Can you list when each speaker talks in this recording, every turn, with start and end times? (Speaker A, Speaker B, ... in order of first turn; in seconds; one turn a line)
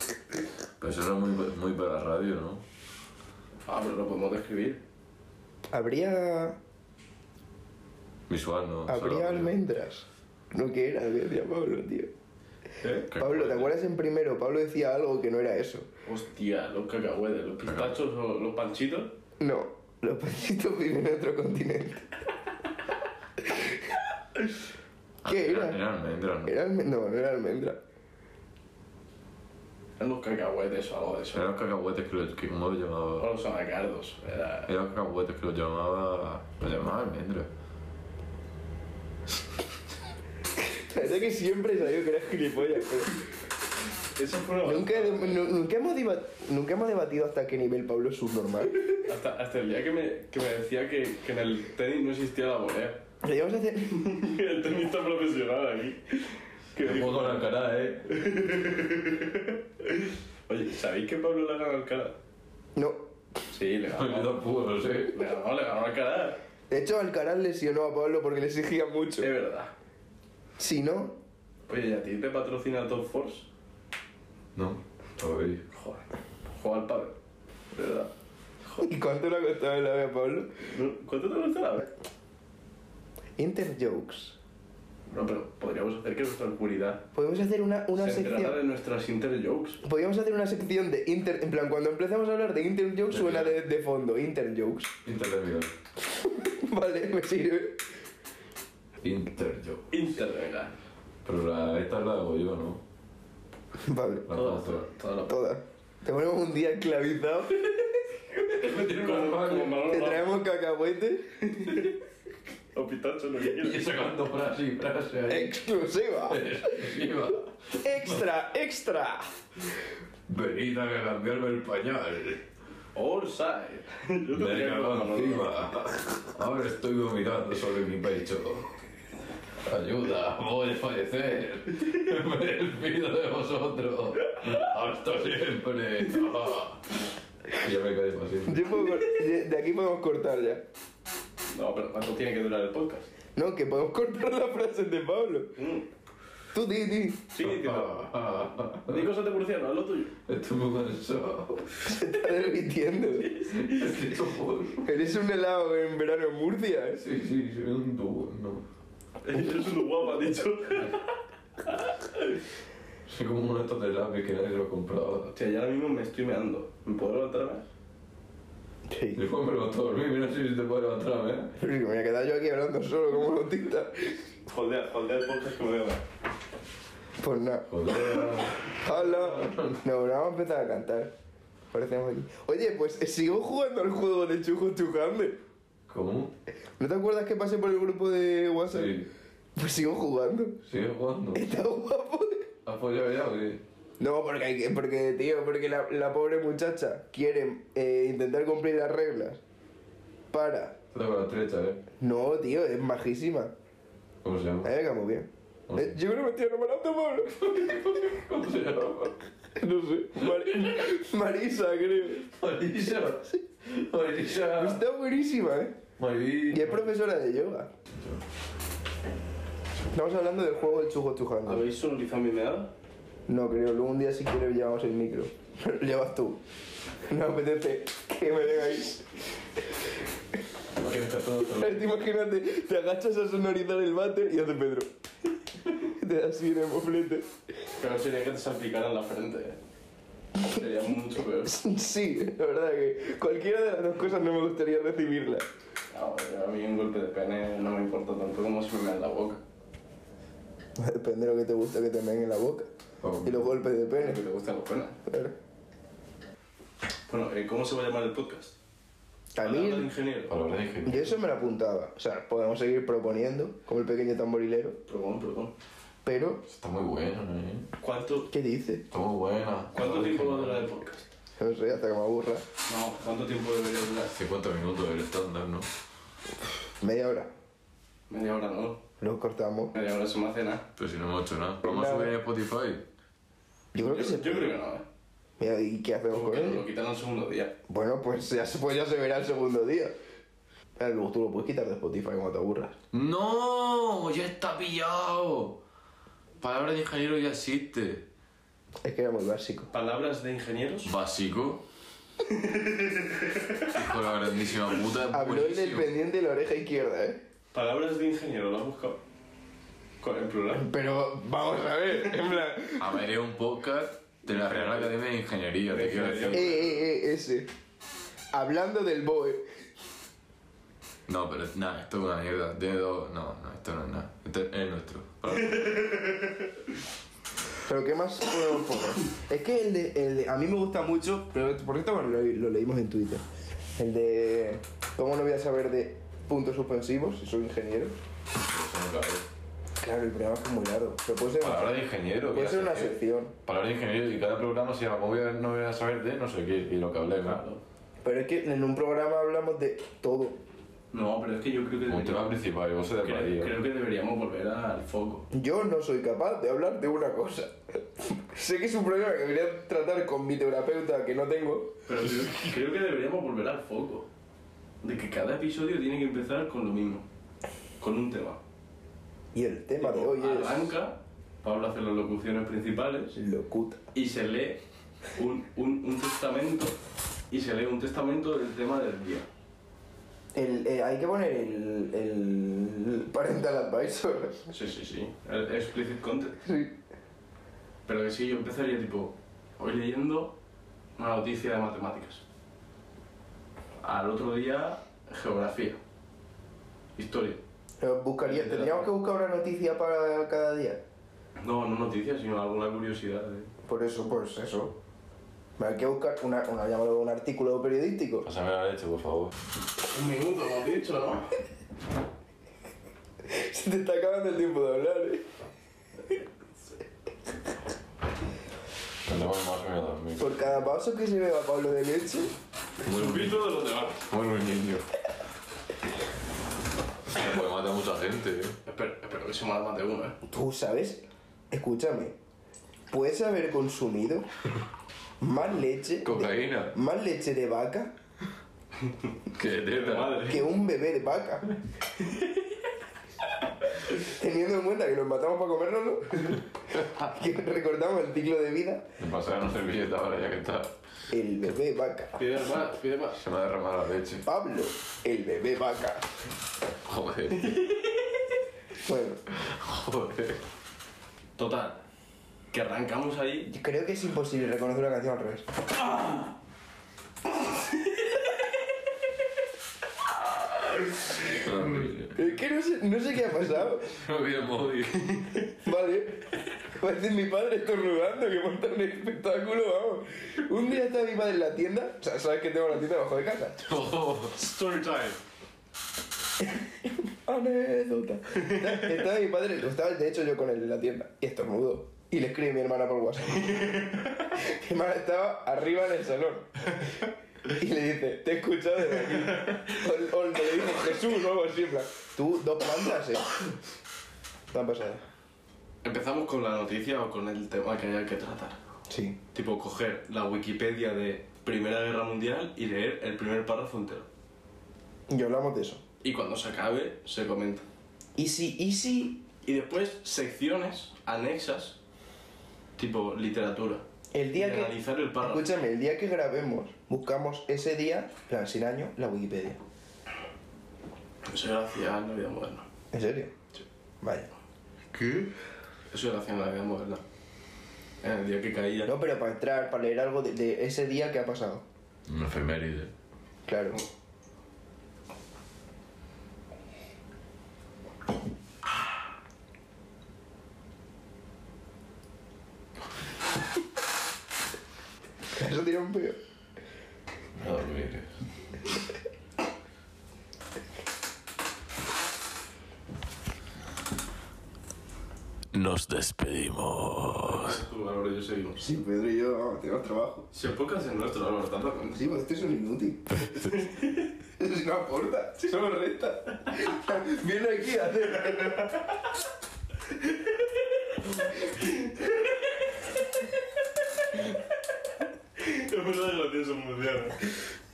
Speaker A: 0.8-2.6
Speaker B: 3.7-4.8
Speaker C: 5.7-6.6
Speaker A: 8.3-9.5
Speaker C: 8.9-12.1
Speaker B: 12.8-13.1
Speaker A: 13.1-13.7
Speaker C: 13.2-15.8
Speaker B: 16.0-19.1
Speaker A: 17.6-18.0
Speaker C: 19.4-22.1
Speaker C: 23.4-24.0
Speaker A: 25.2-26.6
Speaker C: 25.2-25.8
Speaker C: 26.4-27.8
Speaker B: 30.0-31.5
Speaker A: 31.3-33.3
Speaker B: 33.2-34.7
Speaker A: 34.7-37.5
Speaker C: 40.6-43.2
Speaker B: 44.1-45.5
Speaker C: 44.6-48.9
Speaker B: 48.9-53.0
Speaker C: 53.2-54.0
Speaker B: 53.9-57.4
Speaker A: 56.8-58.0
Speaker B: 58.1-62.2
Speaker C: 62.8-63.0
Speaker B: 63.5-64.4
Speaker A: 64.0-65.2
Speaker B: 65.1-66.4
Speaker C: 66.7-69.3
Speaker B: 69.2-69.7
Speaker C: 70.6-71.2
Speaker B: 71.7-73.5
Speaker A: 74.5-75.6
Speaker B: 75.7-77.2
Speaker B: 77.7-78.1
Speaker B: 78.6-78.9
Speaker C: 78.8-80.5
Speaker B: 80.6-81.9
Speaker C: 83.4-84.3
Speaker B: 85.1-87.0
Speaker C: 87.1-88.6
Speaker B: 88.0-89.8
Speaker C: 89.8-94.9
Speaker A: 93.1-93.6
Speaker A: 95.0-95.7
Speaker C: 96.1-97.8
Speaker A: 99.0-99.8
Speaker B: 99.9-100.7
Speaker A: 101.2-102.8
Speaker C: 103.8-104.3
Speaker A: 104.3-104.8
Speaker B: 104.3-105.4
Speaker C: 105.3-108.0
Speaker A: 108.3-109.8
Speaker B: 108.6-110.3
Speaker C: 109.9-111.9
Speaker B: 111.5-111.9
Speaker B: 112.7-113.8
Speaker A: 113.5-115.6
Speaker C: 115.3-117.0
Speaker A: 116.2-118.2
Speaker C: 117.8-119.3
Speaker A: 120.3-122.4
Speaker B: 122.9-125.5
Speaker A: 124.3-128.7
Speaker A: 129.6-136.8
Speaker A: 137.5-138.8
Speaker C: 138.4-140.6
Speaker B: 141.5-143.1
Speaker C: 143.3-145.5
Speaker B: 145.6-145.9
Speaker C: 146.5-147.2
Speaker B: 147.3-148.2
Speaker A: 147.4-149.1
Speaker B: 148.8-150.1
Speaker A: 150.2-151.8
Speaker C: 151.8-153.5
Speaker A: 153.4-154.9
Speaker C: 154.8-157.0
Speaker A: 157.0-158.6
Speaker B: 159.2-161.1
Speaker A: 163.1-165.3
Speaker B: 165.3-167.6
Speaker C: 168.9-169.2
Speaker A: 169.1-171.5
Speaker C: 171.6-174.2
Speaker B: 174.5-176.0
Speaker C: 177.2-178.2
Speaker A: 177.7-179.8
Speaker C: 178.8-181.1
Speaker C: 181.7-185.4
Speaker A: 185.9-186.3
Speaker C: 186.8-188.9
Speaker A: 188.7-189.1
Speaker C: 189.6-190.6
Speaker A: 190.7-191.5
Speaker C: 191.3-192.4
Speaker A: 192.6-193.6
Speaker C: 194.0-199.4
Speaker C: 200.3-200.8
Speaker A: 200.9-201.8
Speaker C: 202.0-203.5
Speaker A: 204.2-204.7
Speaker C: 204.6-207.3
Speaker A: 205.7-205.9
Speaker A: 207.3-209.2
Speaker C: 209.6-212.2
Speaker A: 210.2-210.8
Speaker A: 212.2-214.8
Speaker C: 214.3-215.8
Speaker A: 216.0-216.8
Speaker C: 216.5-217.7
Speaker C: 219.9-221.6
Speaker B: 221.4-222.7
Speaker C: 223.3-226.4
Speaker C: 227.1-229.0
Speaker A: 230.8-231.8
Speaker B: 230.9-231.2
Speaker C: 231.4-234.9
Speaker C: 235.7-237.3
Speaker B: 237.8-239.6
Speaker B: 240.4-241.5
Speaker C: 241.4-245.4
Speaker B: 245.9-249.4
Speaker C: 250.8-252.7
Speaker A: 253.0-253.5
Speaker C: 253.2-254.2
Speaker B: 254.0-255.0
Speaker C: 255.1-255.3
Speaker B: 257.1-258.6
Speaker C: 259.4-259.9
Speaker B: 259.4-260.3
Speaker A: 260.3-261.2
Speaker C: 260.8-264.8
Speaker B: 264.9-265.5
Speaker C: 266.0-266.4
Speaker A: 266.4-267.7
Speaker B: 267.8-268.3
Speaker C: 268.3-268.9
Speaker A: 268.9-270.6
Speaker B: 269.7-271.1
Speaker C: 271.4-272.4
Speaker B: 272.6-274.1
Speaker A: 274.1-275.7
Speaker C: 276.8-277.3
Speaker B: 278.1-278.8
Speaker C: 279.0-279.7
Speaker B: 279.7-280.6
Speaker A: 280.8-282.8
Speaker C: 281.6-282.1
Speaker C: 283.7-284.5
Speaker B: 283.8-284.8
Speaker C: 285.4-286.6
Speaker B: 286.1-287.5
Speaker C: 287.7-289.9
Speaker C: 290.8-292.8
Speaker A: 292.9-295.6
Speaker A: 296.4-298.0
Speaker C: 298.8-299.7
Speaker B: 299.7-300.9
Speaker A: 300.8-301.6
Speaker B: 302.3-303.8
Speaker A: 303.6-305.9
Speaker C: 305.1-307.2
Speaker B: 307.5-309.0
Speaker B: 310.0-310.7
Speaker C: 310.5-313.0
Speaker A: 312.8-316.5
Speaker B: 314.2-314.9
Speaker B: 315.7-316.8
Speaker C: 316.3-317.5
Speaker C: 318.3-319.5
Speaker A: 321.1-325.9
Speaker C: 327.6-333.2
Speaker C: 333.8-337.9
Speaker A: 338.4-339.2
Speaker C: 339.8-341.8
Speaker A: 341.4-347.4
Speaker C: 342.3-343.3
Speaker B: 347.2-347.6
Speaker C: 348.0-350.4
Speaker B: 350.9-352.3
Speaker A: 351.9-353.5
Speaker B: 353.0-355.2
Speaker C: 355.3-361.7
Speaker B: 361.9-364.1
Speaker B: 364.8-367.1
Speaker B: 367.8-368.4
Speaker C: 369.3-370.7
Speaker B: 369.8-373.1
Speaker C: 373.1-373.8
Speaker B: 373.9-374.6
Speaker B: 375.2-376.8
Speaker B: 377.3-379.3
Speaker C: 380.3-384.5
Speaker B: 384.5-386.4
Speaker C: 386.4-386.8
Speaker B: 387.9-390.4
Speaker B: 391.0-392.2
Speaker B: 393.8-395.8
Speaker B: 396.9-397.4
Speaker C: 397.8-400.8
Speaker B: 398.2-398.9
Speaker B: 401.4-403.5
Speaker C: 403.6-404.8
Speaker C: 405.6-408.2
Speaker A: 408.2-409.3
Speaker B: 409.9-411.3
Speaker C: 413.2-415.2
Speaker A: 419.1-420.3
Speaker C: 420.2-422.3
Speaker A: 422.8-424.9
Speaker B: 422.9-424.0
Speaker A: 427.1-428.6
Speaker B: 428.6-430.2
Speaker C: 430.3-432.1
Speaker C: 432.9-434.3
Speaker C: 435.2-437.9
Speaker A: 436.0-436.7
Speaker A: 439.3-440.2
Speaker B: 439.7-440.5
Speaker C: 440.2-441.4
Speaker B: 442.0-442.4
Speaker C: 443.9-448.9
Speaker A: 449.0-450.7
Speaker C: 451.1-452.2
Speaker B: 452.1-453.2
Speaker A: 453.2-454.2
Speaker C: 454.2-456.1
Speaker A: 456.8-457.6
Speaker B: 457.4-458.0
Speaker C: 458.8-459.2
Speaker A: 459.3-460.4
Speaker B: 461.4-461.8
Speaker B: 462.5-463.5
Speaker C: 463.5-465.5
Speaker A: 471.3-472.2
Speaker C: 472.1-474.0
Speaker A: 473.9-475.4
Speaker C: 475.6-483.6
Speaker A: 483.6-484.4
Speaker B: 484.3-485.2
Speaker C: 486.4-493.8
Speaker B: 493.5-494.0
Speaker C: 494.3-496.7
Speaker C: 497.5-503.3
Speaker C: 504.5-505.0
Speaker B: 505.8-508.6
Speaker C: 508.9-509.2
Speaker B: 509.3-514.1
Speaker C: 515.1-515.8
Speaker B: 516.0-517.6
Speaker C: 518.1-519.2
Speaker B: 519.4-521.8
Speaker B: 522.8-525.5
Speaker C: 524.1-529.6
Speaker B: 531.2-532.6
Speaker C: 532.9-533.3
Speaker C: 534.0-534.3
Speaker B: 534.9-535.3
Speaker B: 535.9-537.0
Speaker B: 538.0-538.9
Speaker C: 538.8-541.6
Speaker A: 542.1-542.9
Speaker C: 543.5-543.8
Speaker C: 555.3-556.2
Speaker A: 557.4-558.1
Speaker A: 565.5-567.6
Speaker B: 567.2-568.7
Speaker C: 568.6-570.3
Speaker B: 570.3-572.2
Speaker C: 571.9-573.3
Speaker B: 573.4-574.0
Speaker C: 574.4-578.7
Speaker B: 581.6-582.0
Speaker B: 585.4-587.2